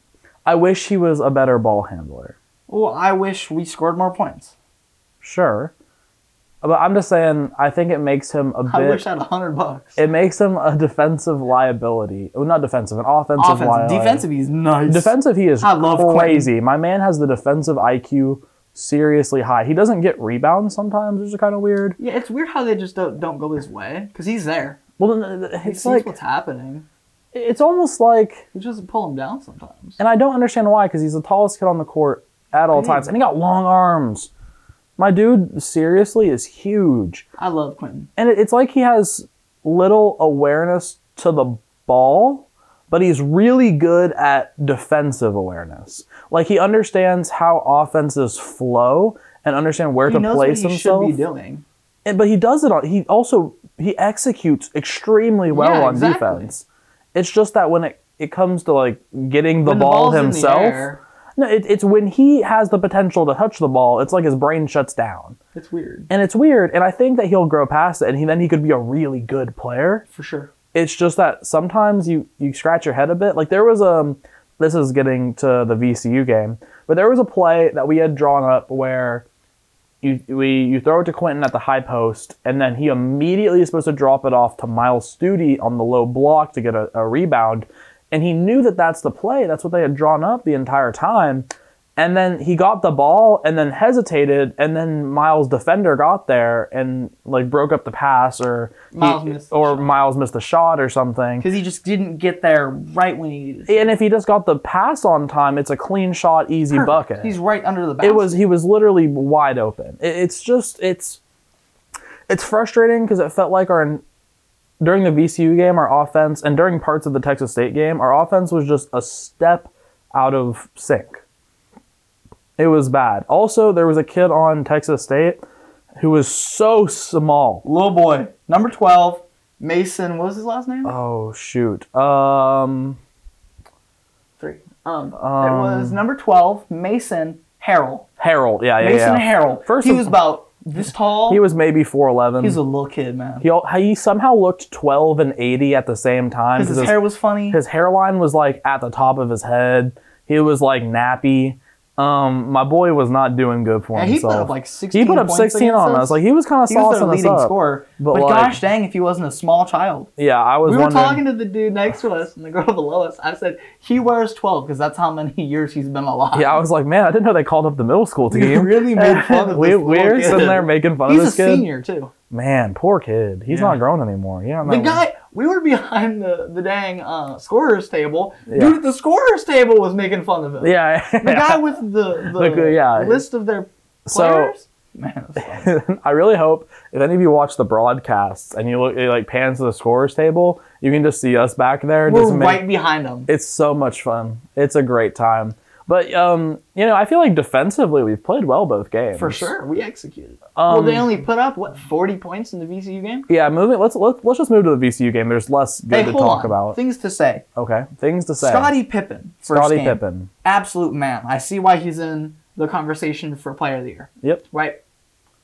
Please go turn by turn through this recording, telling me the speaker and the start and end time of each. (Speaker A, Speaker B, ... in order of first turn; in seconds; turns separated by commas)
Speaker A: 0.5-2.3, Speaker B: 2.7-4.5, Speaker A: 5.2-5.7, Speaker A: 6.6-9.0, Speaker B: 8.7-10.0, Speaker A: 10.0-14.2, Speaker B: 13.4-16.5, Speaker A: 14.9-22.0, Speaker B: 22.0-24.8, Speaker A: 25.0-26.1, Speaker B: 25.6-26.9, Speaker A: 27.3-28.4, Speaker B: 28.5-30.0, Speaker A: 30.0-34.3, Speaker B: 32.7-33.1, Speaker A: 35.0-37.2, Speaker B: 37.4-38.1, Speaker A: 38.2-51.2, Speaker B: 50.0-51.6, Speaker A: 52.0-65.4, Speaker B: 55.5-56.5, Speaker B: 59.6-61.0, Speaker B: 65.5-66.1, Speaker A: 66.1-70.0, Speaker B: 70.1-70.5, Speaker A: 70.7-79.2, Speaker A: 80.0-101.5, Speaker B: 98.9-99.9, Speaker B: 101.4-103.9, Speaker A: 103.7-107.3, Speaker B: 106.7-108.4, Speaker A: 108.0-111.2, Speaker A: 112.3-114.0, Speaker A: 114.8-121.2, Speaker A: 122.6-125.4, Speaker A: 126.0-127.6, Speaker B: 127.6-130.9, Speaker A: 130.8-133.0, Speaker B: 134.4-138.1, Speaker A: 135.2-136.0, Speaker A: 138.2-140.2, Speaker B: 138.8-141.4, Speaker A: 141.3-142.6, Speaker B: 142.4-143.4, Speaker A: 143.4-158.6, Speaker B: 146.6-147.6, Speaker B: 153.9-160.1, Speaker A: 160.2-161.2, Speaker B: 160.6-166.6, Speaker A: 166.3-171.7, Speaker B: 168.3-172.1, Speaker A: 172.3-175.0, Speaker B: 173.5-173.8, Speaker B: 174.6-185.7, Speaker A: 178.5-178.8, Speaker A: 180.6-181.7, Speaker A: 182.2-183.2, Speaker A: 184.1-184.5, Speaker A: 185.4-192.6, Speaker B: 192.1-193.3, Speaker A: 193.3-199.5, Speaker B: 199.1-203.3, Speaker A: 200.6-201.1, Speaker A: 203.3-206.8, Speaker B: 205.9-207.4, Speaker A: 207.6-208.7, Speaker B: 208.4-214.8, Speaker A: 209.5-210.3